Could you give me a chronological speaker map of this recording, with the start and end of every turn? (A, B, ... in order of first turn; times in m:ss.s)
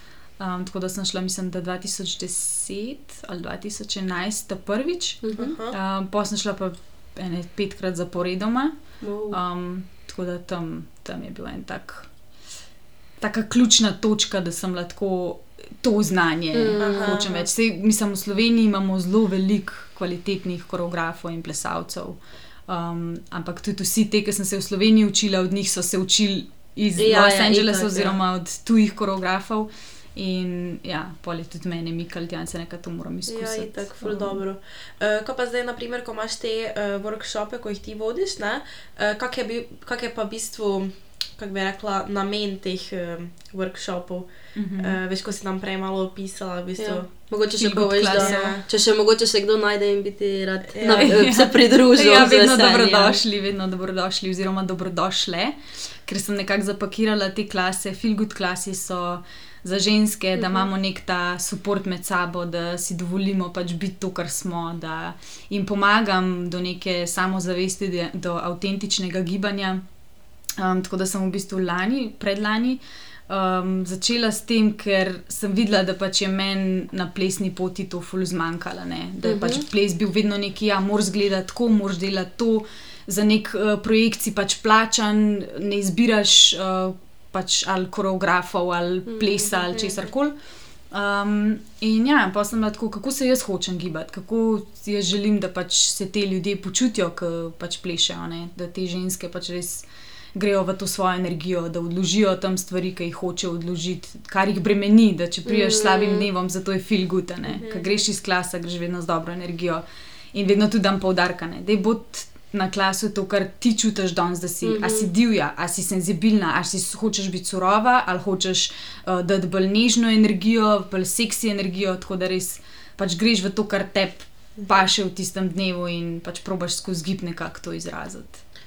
0:00.4-0:08.8 A
0:05.2-0:05.6 B
0:05.4-0:05.8 C
0:09.0-0:09.4 B
0:09.3-0:12.1 A
0:13.2-0:34.4 A
0:16.5-0:17.2 B
0:16.8-0:17.5 C
0:27.0-0:28.2 B
0:33.3-0:47.1 C
0:44.6-0:45.0 A
0:46.8-0:53.2 B
0:47.5-0:48.6 A
0:48.2-0:48.7 C
0:50.8-0:51.2 C
0:50.9-1:09.8 A
1:00.4-1:00.6 B
1:10.6-1:30.3 A
1:19.2-1:19.6 B
1:29.1-1:29.5 B
1:29.7-1:30.0 C
1:30.9-2:08.4 A
1:45.4-1:46.3 B
1:47.5-1:48.0 C
1:54.6-1:55.1 B